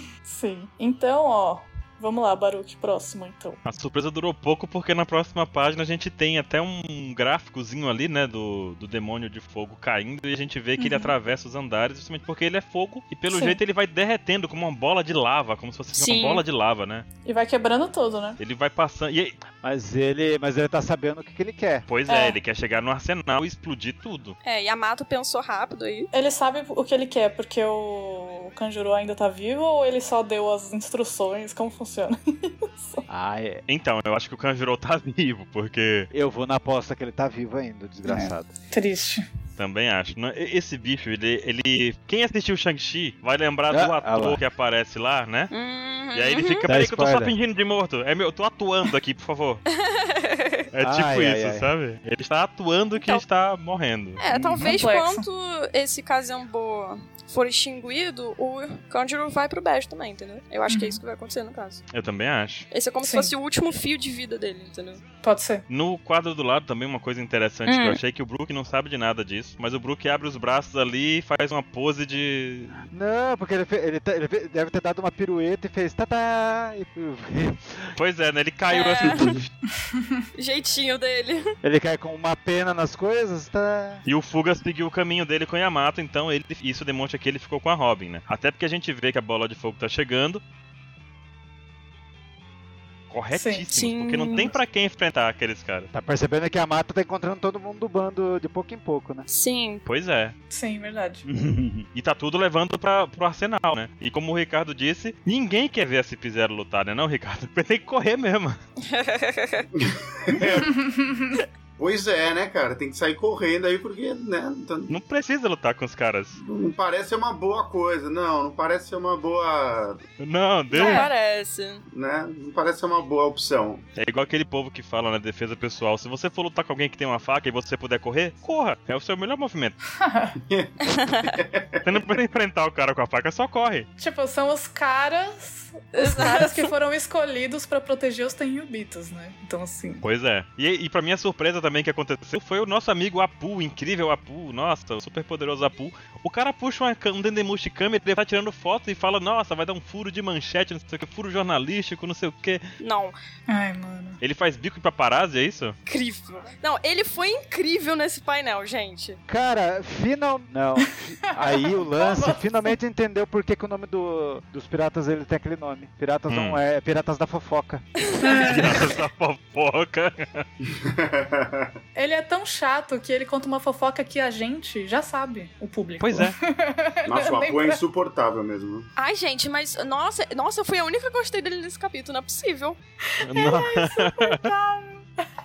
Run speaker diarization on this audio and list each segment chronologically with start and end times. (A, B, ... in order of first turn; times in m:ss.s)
0:00.2-0:03.6 A
0:03.7-0:17.1 B
0:10.8-0:11.1 A
0:13.3-0:13.6 A
0:15.9-0:16.4 C
0:17.2-0:18.4 A
0:18.4-0:19.4 B
0:19.6-0:21.8 D
0:21.9-0:24.4 B
0:22.1-0:22.4 A
0:24.4-0:26.1 C
0:26.1-0:33.1 A
0:33.1-0:33.6 D
0:33.7-0:36.1 B
0:36.1-0:38.5 D
0:38.1-0:39.2 A
0:39.6-0:45.5 B
0:43.7-0:44.4 D
0:45.5-0:46.7 C
0:46.1-0:49.6 B
0:46.7-0:47.4 D
0:49.7-0:50.7 C
0:50.7-0:54.2 B
0:50.8-0:51.7 D
0:53.0-0:53.2 C
0:54.2-1:01.8 C
0:54.3-0:54.7 D
0:54.6-0:55.3 A
1:00.7-1:01.0 A
1:01.9-1:02.7 B
1:02.7-1:05.0 C
1:03.0-1:03.3 A
1:05.2-1:05.6 A
1:05.7-1:12.8 B
1:07.7-1:08.0 C
1:12.9-1:17.9 D
1:18.0-1:19.5 B
1:18.7-1:19.4 C
1:19.8-1:20.2 A
1:20.4-1:21.4 C
1:21.6-1:24.0 D
1:24.1-1:30.4 B
1:33.1-1:35.9 B
1:33.3-1:33.7 A
1:33.7-1:34.6 C
1:35.9-1:39.3 D
1:39.3-1:39.8 C
1:39.9-1:40.4 B
1:40.5-1:41.2 A
1:41.3-1:41.9 D
1:42.0-1:48.6 B
1:48.8-1:49.7 C
1:49.8-1:50.8 E
1:50.5-1:51.4 A
1:51.8-1:54.9 E
1:54.9-1:56.4 B
1:56.4-2:00.0 E
2:00.2-2:01.1 B
2:00.7-2:01.8 C
2:00.7-2:01.1 A
2:01.9-2:03.8 E
2:04.0-2:09.8 B
2:10.0-2:10.4 A
2:10.4-2:12.0 E
2:10.8-2:11.4 C
2:11.8-2:13.9 B
2:14.0-2:20.0 A
2:15.9-2:16.7 C
2:20.0-2:32.6 B
2:32.8-2:33.2 C
2:33.5-2:34.2 A
2:34.2-2:35.8 B
2:35.9-2:39.2 C
2:39.3-2:47.8 D
2:41.3-2:42.8 A
2:46.3-2:46.6 B
2:48.0-2:48.8 C
2:48.2-2:48.9 A
2:48.4-2:50.4 B
2:50.6-2:51.7 E
2:52.0-2:57.8 A
2:56.0-2:56.4 B
2:57.1-2:58.9 E
2:59.0-3:02.8 C
3:03.1-3:05.0 A
3:03.2-3:04.5 B